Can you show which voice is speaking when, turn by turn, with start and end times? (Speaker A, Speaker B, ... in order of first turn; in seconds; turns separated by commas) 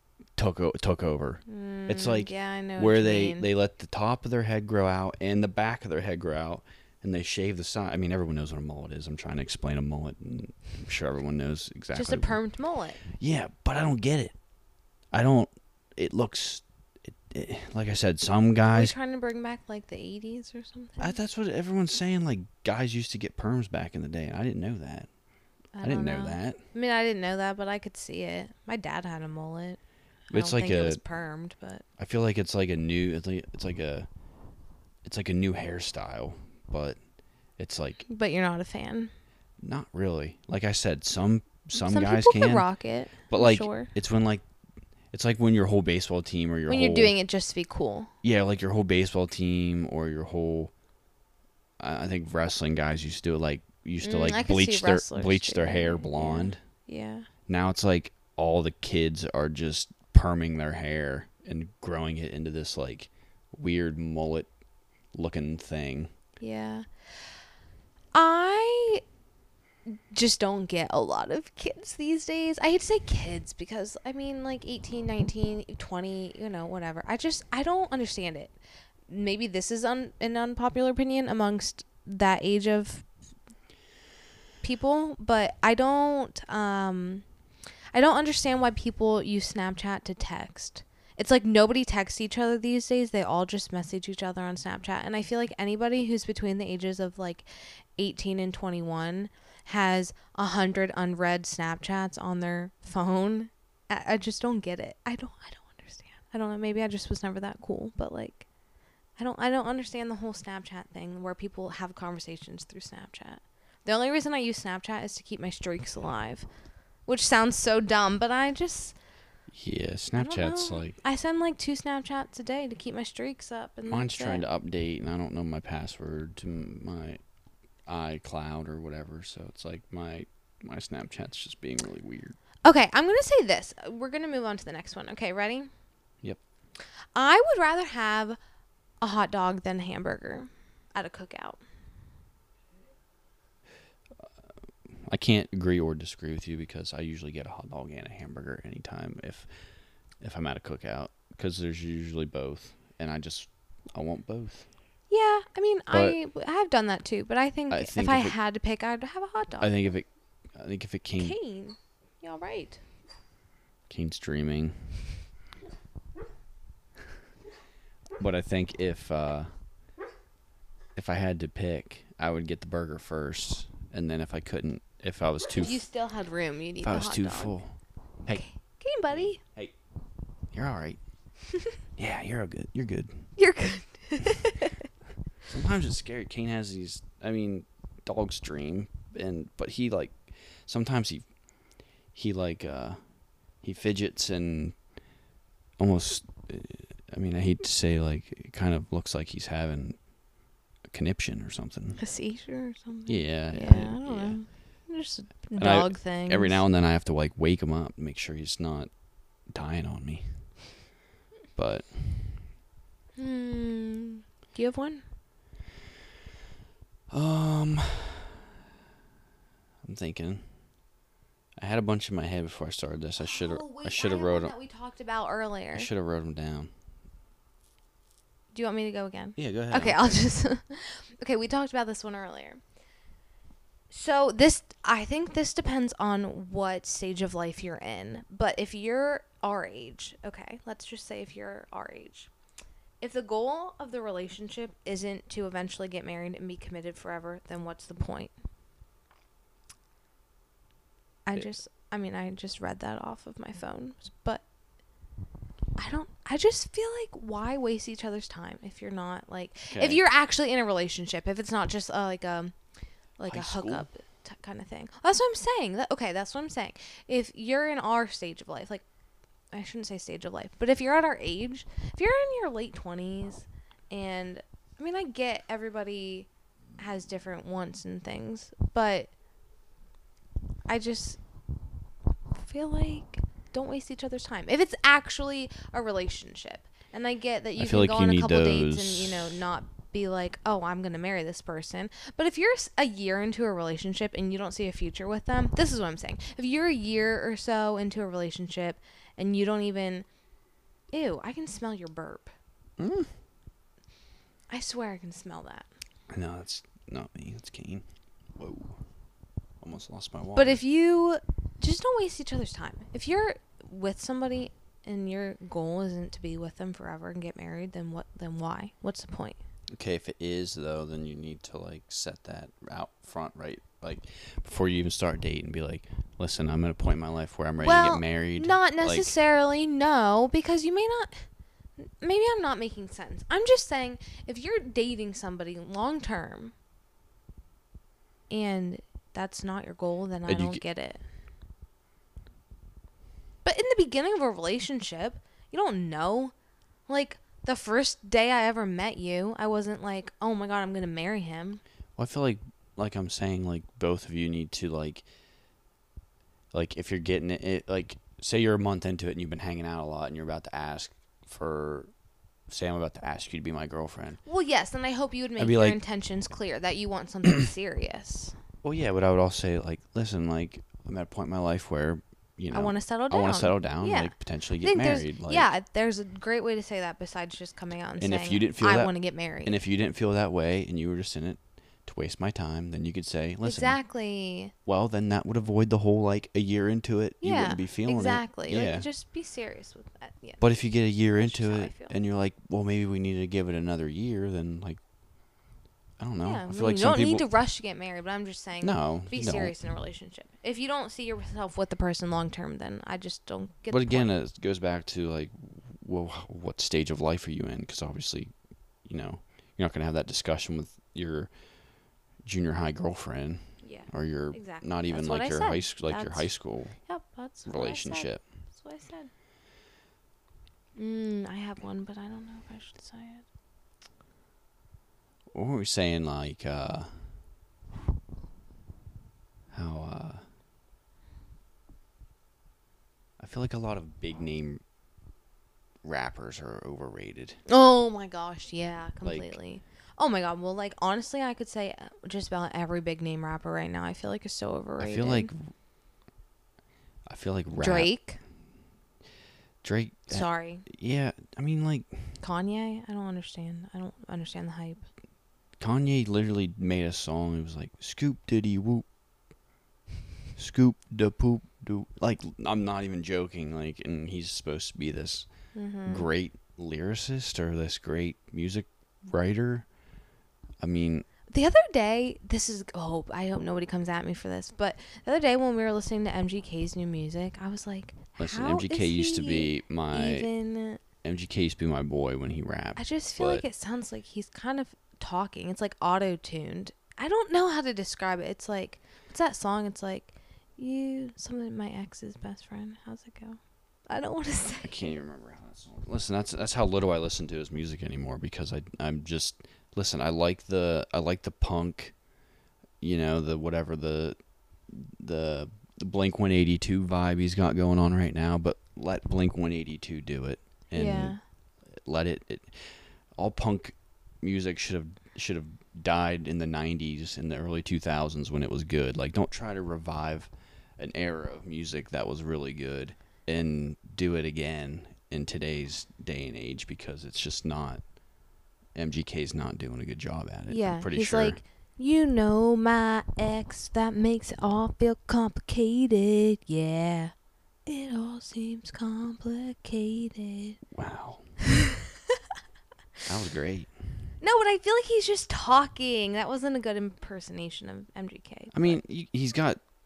Speaker A: 0.4-12.4, Speaker B: 1.5-3.5, Speaker B: 11.9-13.0, Speaker A: 13.2-14.3, Speaker A: 15.1-18.9, Speaker B: 18.7-21.1, Speaker A: 21.0-25.1, Speaker B: 25.7-29.8, Speaker A: 25.8-26.6, Speaker B: 30.3-31.8, Speaker A: 30.3-31.0, Speaker A: 32.0-34.1, Speaker A: 35.0-37.0, Speaker A: 37.6-38.1, Speaker B: 38.1-39.1, Speaker A: 39.6-42.7, Speaker B: 41.7-43.9, Speaker A: 43.3-44.4, Speaker A: 45.1-47.1, Speaker B: 46.7-48.1, Speaker A: 48.2-50.7, Speaker A: 51.8-56.6, Speaker B: 54.0-57.3, Speaker A: 57.5-64.5, Speaker A: 65.1-66.1, Speaker B: 66.4-66.8, Speaker B: 68.1-69.0, Speaker B: 69.9-78.5, Speaker B: 79.1-83.0, Speaker B: 84.6-87.2, Speaker B: 87.9-97.5, Speaker B: 98.0-108.5, Speaker B: 109.2-116.5, Speaker B: 117.1-119.0, Speaker A: 119.5-121.0, Speaker B: 120.2-124.4, Speaker A: 123.9-127.2, Speaker A: 127.8-132.4, Speaker B: 132.6-135.7, Speaker B: 137.1-138.4, Speaker B: 139.0-141.6, Speaker A: 145.1-149.5, Speaker A: 150.2-154.7, Speaker B: 155.1-159.7, Speaker A: 155.9-156.2, Speaker A: 157.7-158.3, Speaker A: 159.6-161.3, Speaker B: 161.2-162.8, Speaker A: 163.9-164.8, Speaker A: 168.2-169.5, Speaker A: 170.9-175.8, Speaker B: 175.6-177.5, Speaker A: 176.8-177.7, Speaker B: 178.3-179.4, Speaker A: 179.1-179.7, Speaker A: 180.5-181.0, Speaker A: 182.0-183.3, Speaker B: 183.4-184.8, Speaker A: 185.5-191.2, Speaker A: 192.1-193.0, Speaker A: 193.6-194.8, Speaker A: 195.8-200.0, Speaker A: 200.9-202.0, Speaker B: 202.0-206.6, Speaker A: 203.1-204.4, Speaker A: 205.6-208.9, Speaker A: 209.5-210.5, Speaker A: 211.6-212.4, Speaker B: 213.2-215.0, Speaker A: 217.1-218.4, Speaker A: 219.8-220.5, Speaker A: 221.6-224.5, Speaker B: 223.2-225.9, Speaker A: 225.7-226.7, Speaker B: 228.5-232.6, Speaker A: 229.4-230.3, Speaker B: 233.9-242.3, Speaker B: 243.0-248.3, Speaker B: 251.2-254.4, Speaker B: 255.8-262.5, Speaker A: 259.7-260.0, Speaker B: 263.2-268.8, Speaker A: 263.3-263.9, Speaker B: 269.5-279.1, Speaker B: 280.7-281.2, Speaker B: 282.4-300.1, Speaker A: 287.6-289.4, Speaker B: 300.9-302.3, Speaker A: 302.8-303.1, Speaker B: 304.5-305.7, Speaker A: 306.1-307.8, Speaker A: 308.4-308.8, Speaker A: 309.6-310.6, Speaker B: 310.4-319.4, Speaker A: 319.7-329.1, Speaker B: 327.6-336.5, Speaker B: 338.3-341.0, Speaker A: 340.3-340.6, Speaker B: 343.4-346.3, Speaker B: 346.9-351.6, Speaker A: 352.0-355.0, Speaker A: 356.5-361.9, Speaker A: 362.5-364.2, Speaker B: 364.2-368.4, Speaker A: 365.4-365.8, Speaker A: 368.6-375.5, Speaker B: 372.5-379.6, Speaker A: 378.0-378.9, Speaker A: 379.4-383.8, Speaker B: 383.4-384.5, Speaker A: 384.6-388.9, Speaker B: 387.2-390.4, Speaker A: 390.4-394.8, Speaker B: 391.2-391.9, Speaker A: 396.0-397.2, Speaker B: 396.2-404.1, Speaker A: 398.6-399.5, Speaker A: 403.7-408.3, Speaker A: 408.8-411.3, Speaker A: 412.2-416.8, Speaker B: 413.6-419.1, Speaker A: 417.4-418.2, Speaker B: 420.8-423.2, Speaker A: 425.3-427.1, Speaker A: 429.5-430.2, Speaker A: 433.2-434.6, Speaker A: 435.8-437.4, Speaker B: 437.5-445.3, Speaker A: 439.0-439.4, Speaker A: 444.8-445.5, Speaker A: 447.1-447.9, Speaker B: 447.6-448.2, Speaker A: 449.6-452.2, Speaker B: 450.1-450.6, Speaker B: 452.2-454.9, Speaker A: 455.6-458.8, Speaker A: 460.4-465.3, Speaker B: 465.5-466.1, Speaker A: 465.9-469.7, Speaker A: 470.6-471.1, Speaker B: 471.3-480.8, Speaker A: 478.2-480.3, Speaker A: 481.0-483.4, Speaker B: 482.8-493.4, Speaker B: 493.9-494.9, Speaker A: 494.6-501.9, Speaker A: 502.8-504.2, Speaker A: 504.7-511.2, Speaker B: 510.7-511.2, Speaker A: 511.7-527.8, Speaker A: 528.7-531.4, Speaker B: 530.5-537.1, Speaker B: 537.6-540.6, Speaker A: 540.7-541.3, Speaker B: 541.4-541.8, Speaker A: 543.0-543.7, Speaker B: 544.2-548.8, Speaker A: 548.5-549.6